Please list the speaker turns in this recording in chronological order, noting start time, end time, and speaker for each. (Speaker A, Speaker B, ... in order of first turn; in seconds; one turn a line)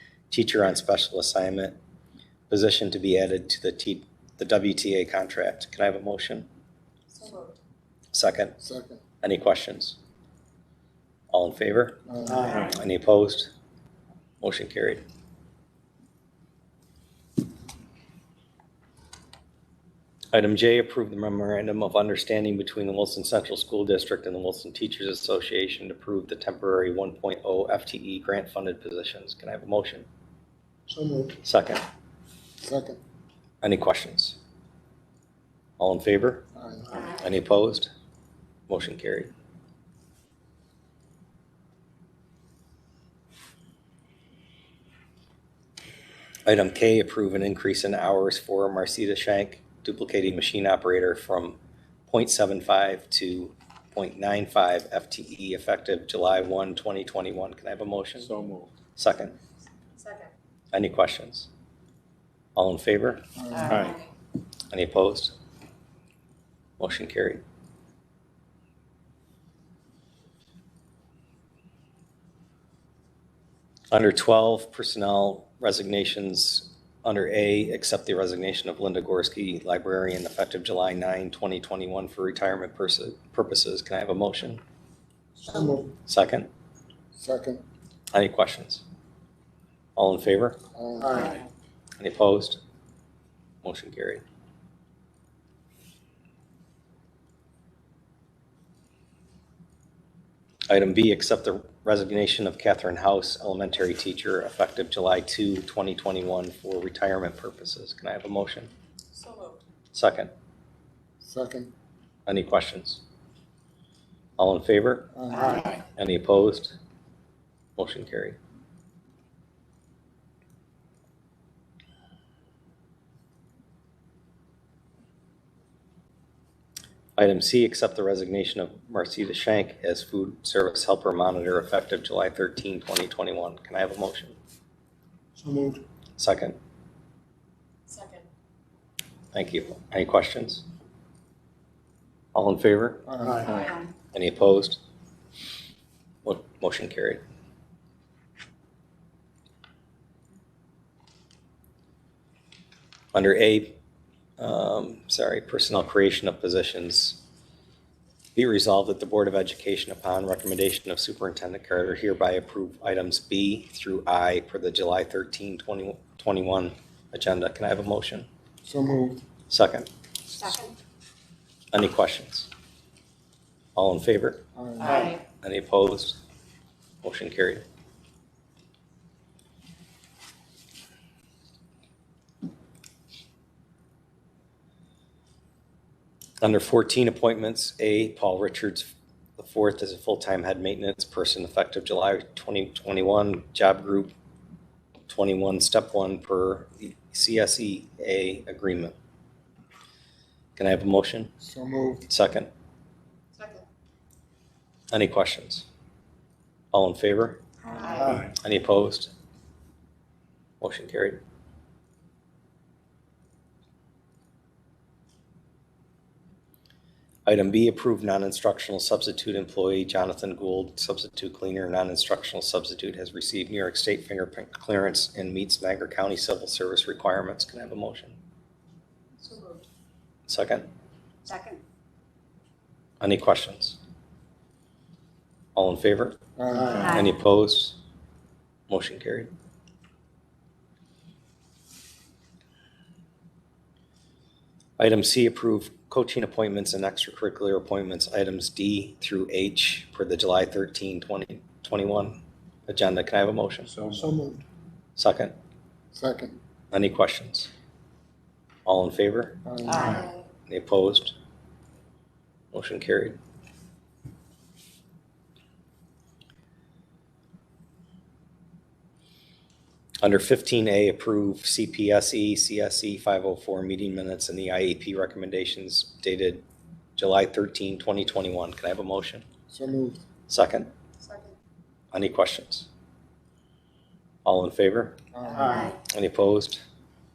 Speaker A: 0.3-1.8
Speaker A: 2.5-6.5
Speaker B: 7.1-7.6
Speaker A: 8.1-8.6
Speaker C: 8.6-9.0
Speaker A: 9.2-10.0
Speaker A: 11.3-13.5
Speaker C: 12.1-12.6
Speaker D: 12.5-12.7
Speaker A: 14.4-15.0
Speaker A: 20.3-30.1
Speaker C: 30.9-31.3
Speaker A: 31.4-31.8
Speaker C: 32.6-33.0
Speaker A: 33.6-34.4
Speaker A: 35.8-37.9
Speaker C: 36.5-36.9
Speaker A: 38.7-39.3
Speaker A: 46.5-58.3
Speaker D: 58.2-58.7
Speaker A: 59.0-59.4
Speaker B: 60.0-60.3
Speaker A: 60.7-61.5
Speaker A: 62.6-63.2
Speaker C: 63.4-63.9
Speaker D: 63.6-64.0
Speaker B: 63.7-64.0
Speaker A: 64.7-65.3
Speaker A: 66.8-67.4
Speaker A: 73.9-84.6
Speaker C: 85.4-85.9
Speaker A: 86.1-86.5
Speaker C: 87.2-87.6
Speaker A: 88.1-88.8
Speaker A: 90.0-90.6
Speaker C: 90.8-91.4
Speaker A: 92.0-92.6
Speaker A: 93.6-94.2
Speaker A: 100.7-108.7
Speaker B: 109.2-109.6
Speaker A: 109.9-110.3
Speaker C: 111.2-111.7
Speaker A: 112.3-113.0
Speaker A: 114.4-115.1
Speaker C: 115.2-115.8
Speaker B: 115.4-115.7
Speaker A: 116.0-116.8
Speaker A: 117.8-118.4
Speaker A: 127.2-134.4
Speaker C: 135.4-135.8
Speaker A: 136.2-136.6
Speaker B: 137.9-138.2
Speaker A: 139.3-140.6
Speaker A: 142.3-143.1
Speaker C: 143.1-143.5
Speaker D: 143.4-143.7
Speaker A: 144.1-144.8
Speaker A: 146.2-147.2
Speaker A: 153.1-153.8
Speaker A: 154.4-157.2
Speaker A: 158.3-168.3
Speaker C: 168.6-169.2
Speaker A: 169.5-169.9
Speaker A: 171.7-172.5
Speaker A: 173.8-174.4
Speaker C: 174.6-175.2
Speaker B: 174.8-175.1
Speaker A: 175.4-176.2
Speaker A: 177.0-177.6
Speaker A: 186.4-194.1
Speaker A: 195.1-198.9
Speaker A: 200.6-201.3
Speaker C: 201.4-202.1
Speaker A: 202.1-202.5
Speaker B: 203.4-203.6
Speaker A: 204.9-205.7
Speaker A: 206.7-207.4
Speaker B: 207.7-208.2
Speaker A: 208.1-209.1
Speaker A: 210.6-211.2
Speaker A: 217.3-228.2
Speaker B: 229.2-229.6
Speaker A: 230.3-230.7
Speaker B: 231.3-231.6
Speaker A: 233.0-233.8
Speaker A: 235.6-236.2
Speaker C: 236.4-236.9
Speaker A: 236.8-237.8
Speaker A: 238.7-239.3
Speaker A: 244.8-253.7
Speaker D: 253.7-254.2
Speaker C: 253.9-254.4
Speaker A: 255.0-255.3
Speaker C: 255.9-256.4
Speaker A: 256.7-257.5
Speaker A: 258.7-259.4
Speaker C: 259.4-260.0
Speaker B: 259.7-260.2
Speaker A: 260.5-261.1
Speaker A: 262.5-263.2
Speaker A: 270.0-276.4
Speaker A: 277.0-279.3
Speaker C: 279.5-280.0
Speaker A: 280.3-280.7
Speaker B: 281.0-281.3
Speaker A: 281.9-282.7
Speaker A: 284.2-285.0
Speaker C: 285.1-285.7
Speaker A: 285.7-286.6